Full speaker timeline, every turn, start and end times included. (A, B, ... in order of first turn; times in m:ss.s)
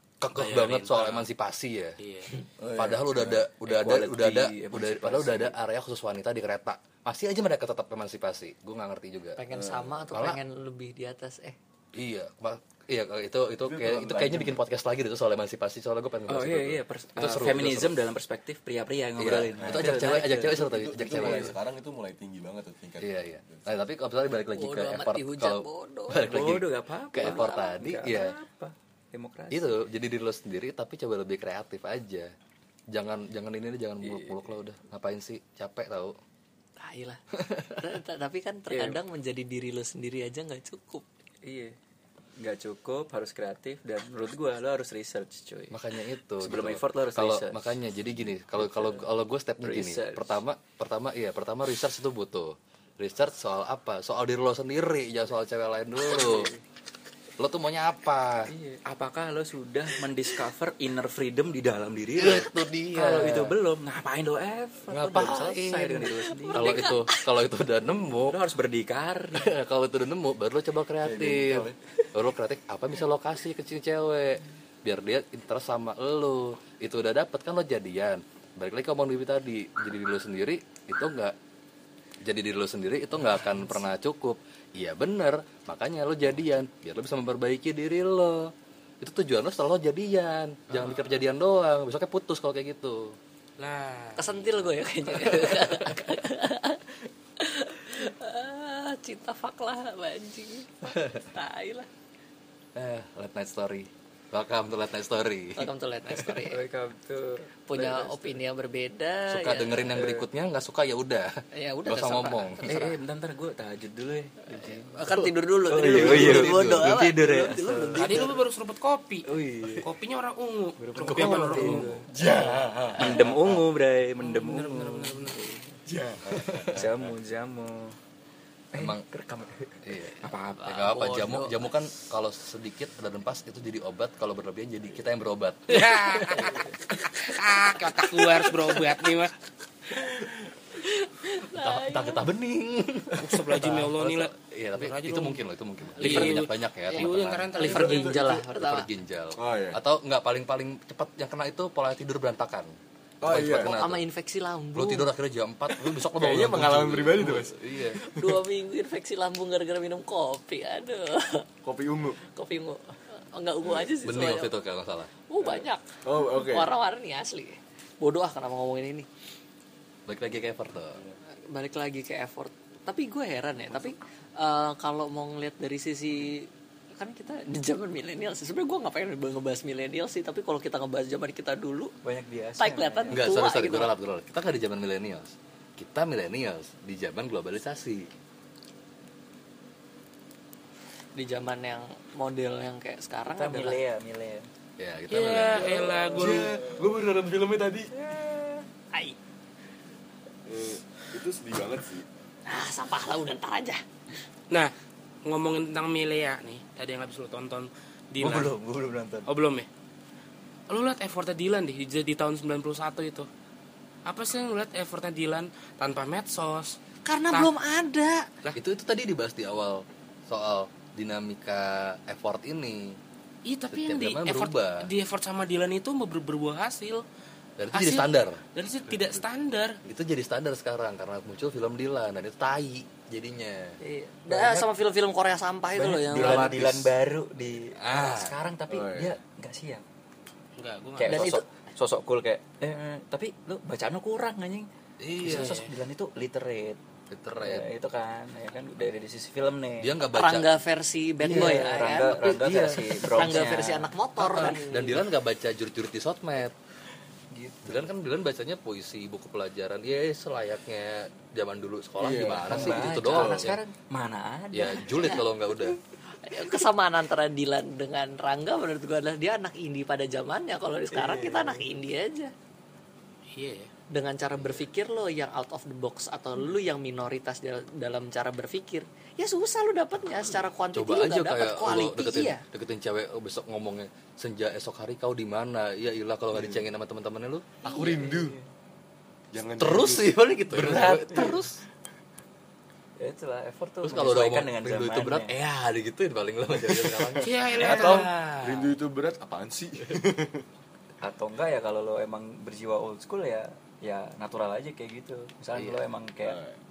0:00.2-0:02.0 A
0:00.3-0:01.3 B
0:02.0-0:02.4 B
0:02.6-0:03.4 C
0:02.8-0:09.4 A
0:03.7-0:05.6 D
0:09.4-0:11.6 E
0:09.5-0:10.0 C
0:10.1-0:10.4 A
0:11.9-0:18.0 A
0:13.6-0:14.6 C
0:16.3-0:21.5 D
0:19.2-0:21.6 A
0:19.6-0:23.7 C
0:23.0-0:28.4 A
0:24.5-0:26.4 E
0:26.2-0:29.8 D
0:27.2-0:27.8 E
0:29.5-0:32.3 A
0:32.9-0:36.2 A
0:34.0-0:34.5 D
0:36.8-0:41.0 E
0:37.4-0:37.8 A
0:38.7-0:39.0 D
0:41.4-0:41.8 D
0:42.4-0:45.8 D
0:45.7-0:56.5 A
0:46.4-0:47.7 D
0:48.6-0:49.1 D
0:49.6-0:50.4 D
0:56.1-0:56.6 D
0:57.4-0:58.5 A
0:58.5-1:07.0 D
1:02.2-1:03.6 A
1:04.9-1:08.4 A
1:06.5-1:07.2 E
1:08.3-1:09.5 D
1:09.3-1:21.4 A
1:11.0-1:11.8 C
1:22.2-1:33.2 A
1:33.6-1:34.3 B
1:34.2-1:41.9 E
1:35.1-1:35.7 A
1:40.9-1:41.2 A
1:42.8-1:45.7 A
1:45.6-1:46.6 E
1:46.3-1:48.4 D
1:47.7-1:50.0 E
1:49.3-1:52.7 A
1:50.0-1:50.3 D
1:51.5-1:53.0 E
1:52.6-1:55.0 D
1:54.6-1:58.3 E
1:55.1-1:55.3 A
1:55.7-1:58.3 D
1:55.8-1:57.1 A
1:58.0-1:59.3 B
1:59.3-1:59.9 D
1:59.8-2:02.0 B
2:00.8-2:02.1 D
2:01.0-2:03.4 A
2:02.1-2:03.6 C
2:03.0-2:08.0 D
2:04.2-2:05.4 B
2:06.1-2:06.9 C
2:06.3-2:06.8 A
2:08.7-2:11.3 D
2:08.8-2:09.0 A
2:09.8-2:16.2 A
2:10.6-2:11.7 E
2:15.7-2:19.3 B
2:20.8-2:22.2 E
2:21.5-2:34.0 A
2:23.2-2:25.4 B
2:26.0-2:28.3 B
2:26.0-2:28.9 E
2:27.6-2:28.4 C
2:29.4-2:29.8 C
2:33.2-2:33.8 C
2:33.6-2:35.1 E
2:34.8-2:38.0 A
2:35.9-2:38.4 C
2:38.0-2:41.5 E
2:41.6-2:42.2 C
2:42.3-2:44.5 E
2:44.0-2:45.1 A
2:45.3-2:49.1 E
2:45.4-2:46.7 C
2:50.1-2:51.0 A
2:51.5-3:02.0 E
3:02.0-3:03.4 D
3:02.6-3:03.9 E
3:03.1-3:08.1 A
3:11.2-3:13.8 E
3:13.4-3:14.5 D
3:14.8-3:15.9 A
3:15.1-3:16.6 B
3:15.6-3:17.9 C
3:17.9-3:18.6 D
3:20.5-3:22.1 C
3:22.5-3:23.8 E
3:25.2-3:28.6 B
3:28.2-3:29.3 D
3:29.3-3:29.7 B
3:30.7-3:33.3 B
3:34.1-3:36.8 B
3:37.0-3:38.3 E
3:38.5-3:43.0 A
3:43.5-3:47.0 B
3:43.7-3:44.9 A
3:47.6-3:48.4 A
3:47.7-3:49.8 B
3:48.9-3:49.2 C
3:49.8-3:53.8 A
3:53.8-3:56.6 E
3:54.3-3:54.7 D
3:55.8-3:59.8 D
3:56.1-3:56.9 C
3:56.2-3:56.6 A
3:57.8-3:58.4 A
3:58.7-3:59.2 C
4:00.6-4:01.3 B
4:01.0-4:04.7 D
4:01.0-4:01.4 E
4:05.0-4:05.6 A
4:05.2-4:06.8 D
4:05.3-4:05.7 B
4:07.1-4:07.7 A
4:07.4-4:09.9 D
4:09.8-4:10.6 A
4:10.1-4:12.3 E
4:11.2-4:15.0 D
4:11.2-4:13.0 A
4:13.1-4:14.6 E
4:14.2-4:16.6 A
4:17.3-4:17.9 D
4:17.6-4:23.6 A
4:22.0-4:23.5 C
4:22.2-4:25.2 D
4:24.5-4:25.8 A
4:25.0-4:25.2 E
4:26.2-4:32.3 E
4:33.3-4:33.7 B
4:33.9-4:42.4 E
4:40.7-4:47.6 A
4:46.3-4:46.6 C
4:47.6-4:48.4 C
4:47.7-4:48.0 E
4:47.8-4:48.4 D
4:49.3-4:51.4 C
4:49.6-4:51.6 A
4:50.7-4:51.4 D
4:53.0-4:55.3 D
4:53.8-4:58.1 A
4:56.6-5:00.4 C
4:57.2-4:58.7 B
5:01.0-5:06.4 D
5:05.5-5:05.8 A
5:06.2-5:06.6 C